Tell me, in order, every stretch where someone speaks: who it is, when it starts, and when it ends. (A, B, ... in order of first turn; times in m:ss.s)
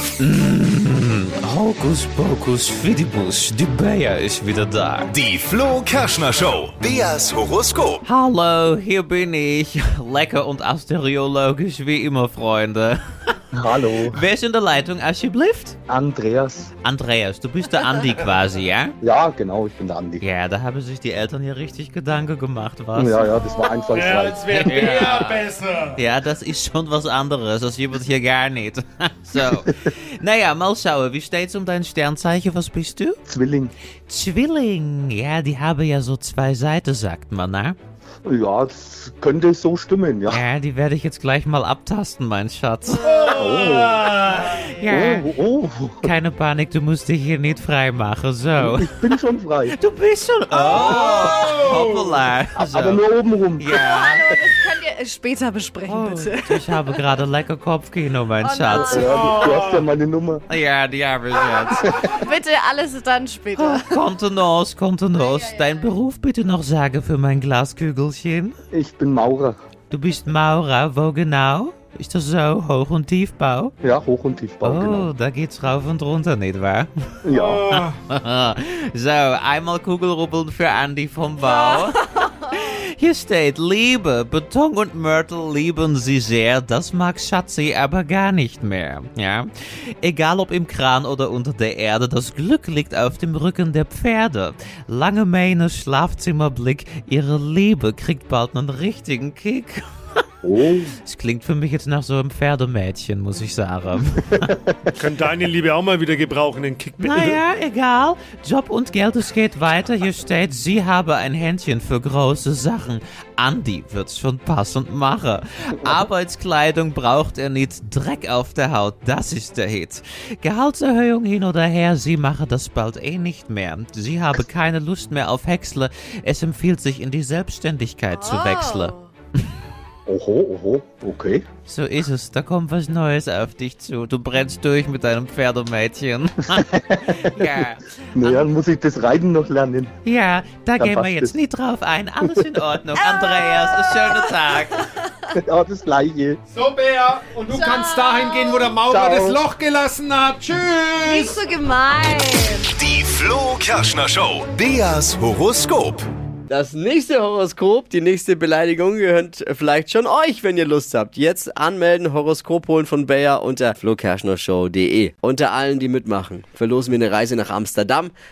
0:00.2-0:05.1 A
0:05.1-0:08.0 B
0:08.0-0:15.8 A
0:13.6-0:14.2 C
0:15.9-0:16.7 C
0:16.8-0:19.0 A
0:19.0-0:20.2 C
0:20.2-0:23.3 A
0:23.0-0:25.0 C
0:23.9-0:26.0 D
0:24.5-0:25.4 A
0:26.0-0:33.2 A
0:29.4-0:29.7 C
0:33.3-0:33.7 C
0:34.1-0:37.8 A
0:38.3-0:40.4 C
0:40.3-0:43.2 A
0:43.0-0:44.7 D
0:43.2-0:44.2 C
0:44.4-0:45.3 A
0:44.9-0:46.1 C
0:46.0-0:49.0 A
0:48.6-0:49.8 C
0:49.7-0:53.0 A
0:50.6-0:52.2 D
0:52.6-0:53.8 C
0:53.6-0:54.4 A
0:53.8-0:57.0 E
0:55.8-0:59.2 A
0:58.4-0:59.4 E
0:58.7-1:00.4 C
0:59.1-0:59.8 D
1:00.5-1:02.0 A
1:01.8-1:04.0 E
1:03.6-1:08.6 A
1:05.2-1:05.9 E
1:08.7-1:09.6 C
1:09.9-1:13.7 A
1:13.8-1:15.1 C
1:14.6-1:16.9 A
1:17.2-1:17.7 C
1:17.3-1:18.0 D
1:17.7-1:29.5 A
1:21.6-1:22.3 E
1:30.0-1:39.8 A
1:40.4-1:40.9 C
1:41.0-1:44.6 A
1:44.4-1:44.7 C
1:45.0-1:47.4 D
1:47.0-2:08.9 A
2:08.1-2:09.1 E
2:10.1-2:11.5 C
2:11.7-2:18.5 A
2:16.6-2:17.6 C
2:18.2-2:19.9 C
2:20.0-2:24.8 A
2:20.8-2:21.4 C
2:22.2-2:22.6 C
2:23.0-2:25.3 E
2:25.4-2:26.4 C
2:26.5-2:31.4 D
2:27.5-2:28.6 E
2:28.9-2:29.4 C
2:31.0-2:32.8 E
2:32.9-2:36.0 B
2:36.5-2:48.1 F